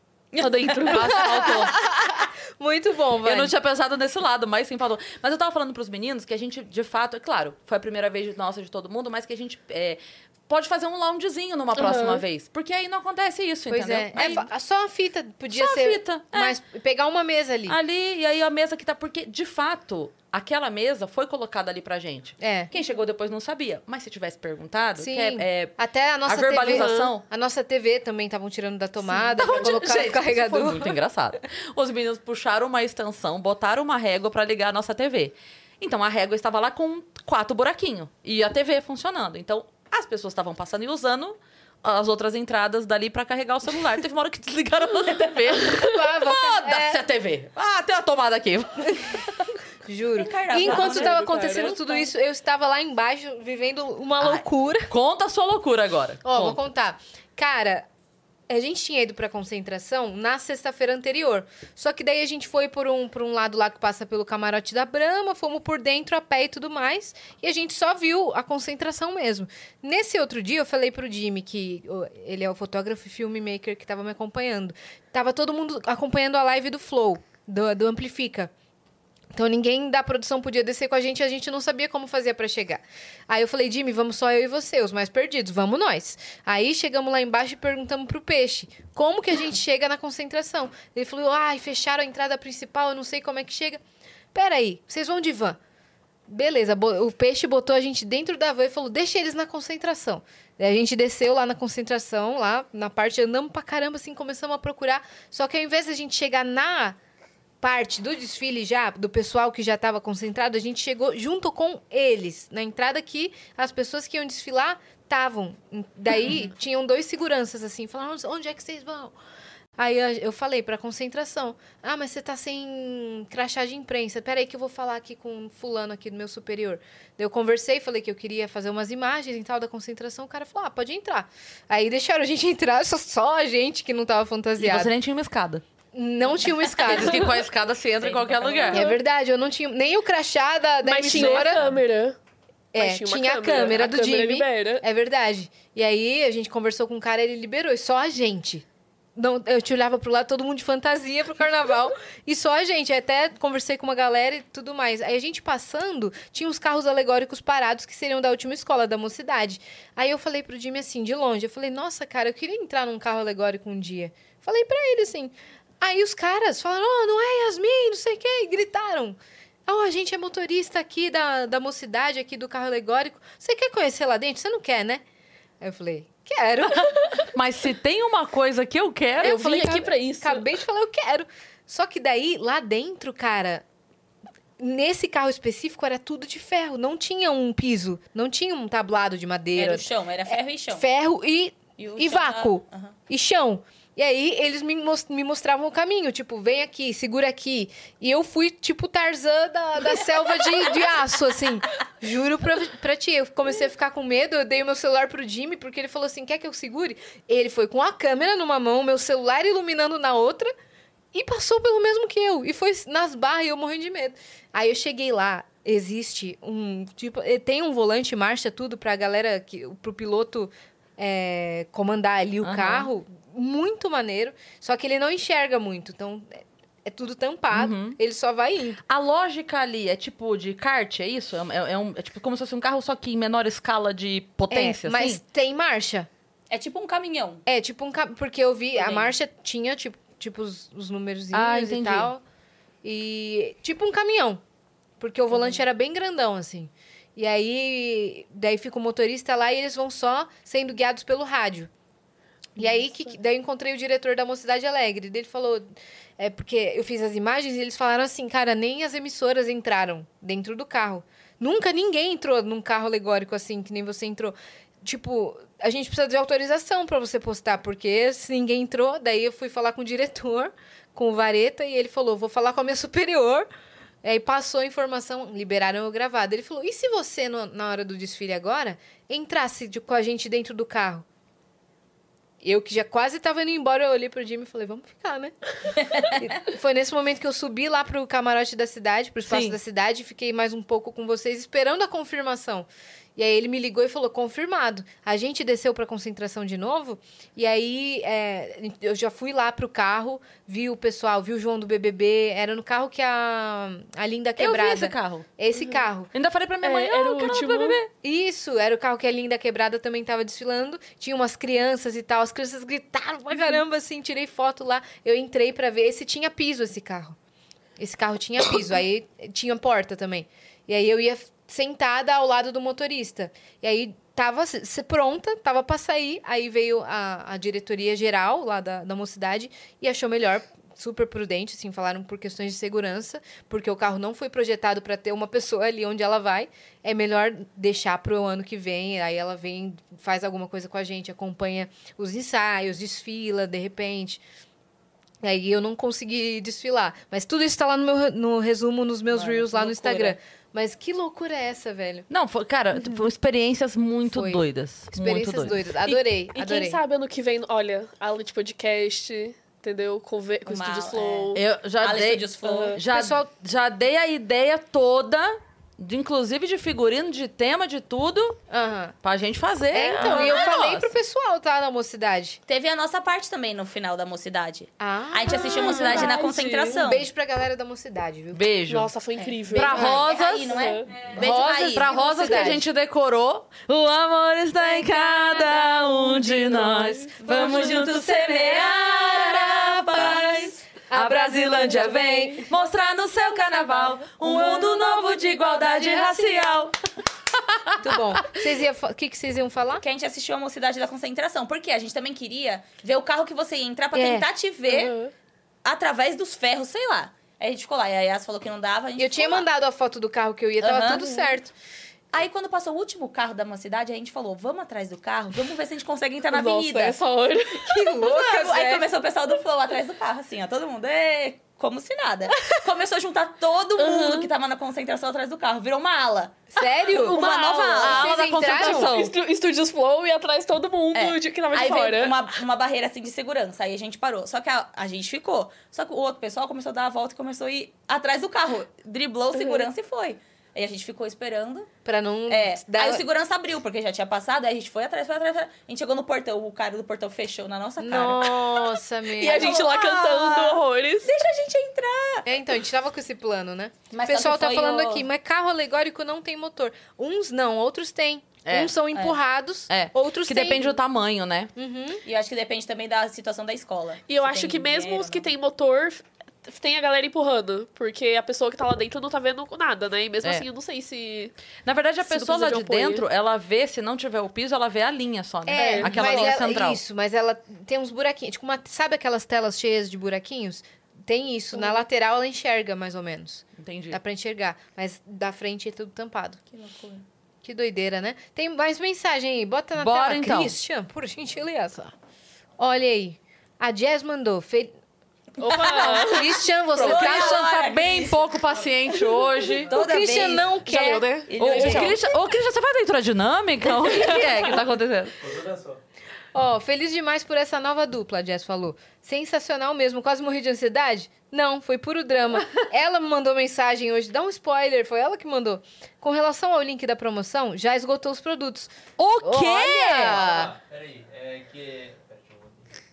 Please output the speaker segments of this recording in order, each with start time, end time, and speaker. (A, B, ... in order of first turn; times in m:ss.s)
0:00.4-0:01.8 A
0:00.4-0:01.1 B
0:00.9-0:03.5 C
0:03.2-0:14.5 A
0:11.8-0:12.2 B
0:13.7-0:17.8 C
0:15.5-0:16.6 A
0:17.7-0:27.2 A
0:22.4-0:22.7 C
0:25.0-0:30.9 C
0:26.7-0:27.1 B
0:29.1-0:49.3 A
0:45.8-0:47.0 C
0:49.8-0:54.9 C
0:50.2-0:51.7 D
0:50.6-0:52.1 B
0:54.2-0:56.6 A
0:56.2-0:57.9 C
0:58.5-1:18.5 C
1:19.3-1:33.8 C
1:34.3-1:35.6 C
1:36.3-1:47.0 C
1:47.6-1:59.1 C
1:59.8-2:14.9 C
2:14.6-2:15.6 A
2:15.9-2:17.4 C
2:16.8-2:18.8 A
2:18.0-2:18.8 D
2:18.7-2:21.7 C
2:18.7-2:19.0 B
2:20.8-2:22.2 B
2:21.1-2:21.4 A
2:22.7-2:28.6 C
2:22.8-2:24.8 B
2:29.2-2:55.0 C
2:55.6-2:57.2 C
2:57.3-2:59.7 A
2:59.2-3:00.5 B
2:59.2-3:03.6 C
3:04.6-3:30.5 C
3:09.6-3:10.8 D
3:11.8-3:13.0 D
3:31.1-3:48.8 C
3:42.4-3:42.9 A
3:47.5-3:48.0 A
3:48.9-3:55.2 A
3:54.5-3:56.1 C
3:56.5-3:57.4 D
3:57.5-4:02.2 C
3:58.8-3:59.1 D
4:01.3-4:02.1 A
4:02.8-4:04.4 C
4:05.0-4:11.7 C
4:05.3-4:05.6 D
4:12.6-4:15.7 C
4:12.6-4:12.9 B
4:16.2-4:33.5 C
4:34.0-4:41.0 C
4:42.4-4:45.3 C
4:46.0-5:06.1 C
4:49.3-4:49.6 A
5:04.4-5:05.3 A
5:06.1-5:07.9 A
5:06.6-5:07.8 B
5:08.0-5:17.2 C
5:17.8-5:44.2 C
5:45.2-5:52.1 C
5:49.1-5:50.2 D
5:52.1-5:55.6 A
5:54.1-5:56.8 C
5:55.9-6:01.4 B
6:00.5-6:02.8 D
6:01.3-6:08.4 A
6:02.4-6:02.8 B
6:02.9-6:03.3 C
6:08.5-6:09.0 C
6:09.0-6:10.9 A
6:09.7-6:12.4 C
6:10.0-6:10.4 D
6:12.5-6:17.1 D
6:14.8-6:16.2 C
6:15.3-6:16.8 B
6:16.8-6:18.4 C
6:18.3-6:18.9 A
6:18.7-6:21.0 B
6:19.2-6:22.5 D
6:19.5-6:20.6 A
6:19.8-6:20.0 C
6:21.1-6:22.7 C
6:21.2-6:36.8 A
6:26.4-6:27.1 B
6:27.2-6:30.5 D
6:30.9-6:32.5 C
6:37.3-6:38.4 A
6:37.8-6:39.8 C
6:39.8-6:44.9 D
6:43.9-6:44.3 C
6:44.7-6:45.1 B
6:45.6-6:49.5 D
6:49.0-6:51.5 C
6:50.6-6:51.3 D
6:52.1-6:57.0 D
6:56.3-6:57.7 B
6:57.6-6:58.9 C
6:58.0-7:08.1 D
7:03.8-7:04.3 B
7:06.5-7:07.2 C
7:07.0-7:12.2 B
7:07.5-7:09.1 A
7:07.8-7:08.9 C
7:10.9-7:21.7 D
7:19.4-7:19.7 B
7:21.8-7:23.0 C
7:22.3-7:28.4 D
7:27.8-7:29.5 C
7:29.2-7:31.1 B
7:29.2-7:32.2 D
7:32.2-7:40.8 C
7:33.9-7:35.0 D
7:38.4-7:38.7 A
7:39.7-7:41.5 A
7:41.6-7:42.0 C
7:42.0-7:45.3 D
7:44.1-7:51.3 B
7:51.6-7:56.8 A
7:52.0-7:53.0 B
7:55.5-8:06.4 C
7:55.5-7:56.4 B
8:01.6-8:01.8 B
8:03.6-8:04.0 A
8:06.5-8:07.0 D
8:07.4-8:11.9 C
8:09.8-8:10.6 A
8:12.6-8:14.8 C
8:15.4-8:17.0 B
8:15.5-8:16.1 D
8:16.0-8:17.4 C
8:16.8-8:18.3 D
8:16.9-8:19.7 A
8:19.7-8:20.5 D
8:19.7-8:21.1 C
8:20.7-8:22.0 B
8:21.3-8:22.0 D
8:21.4-8:25.1 A
8:23.9-8:24.3 B
8:25.2-8:25.8 E
8:26.3-8:40.5 C
8:39.0-8:40.2 A
8:40.1-8:42.7 E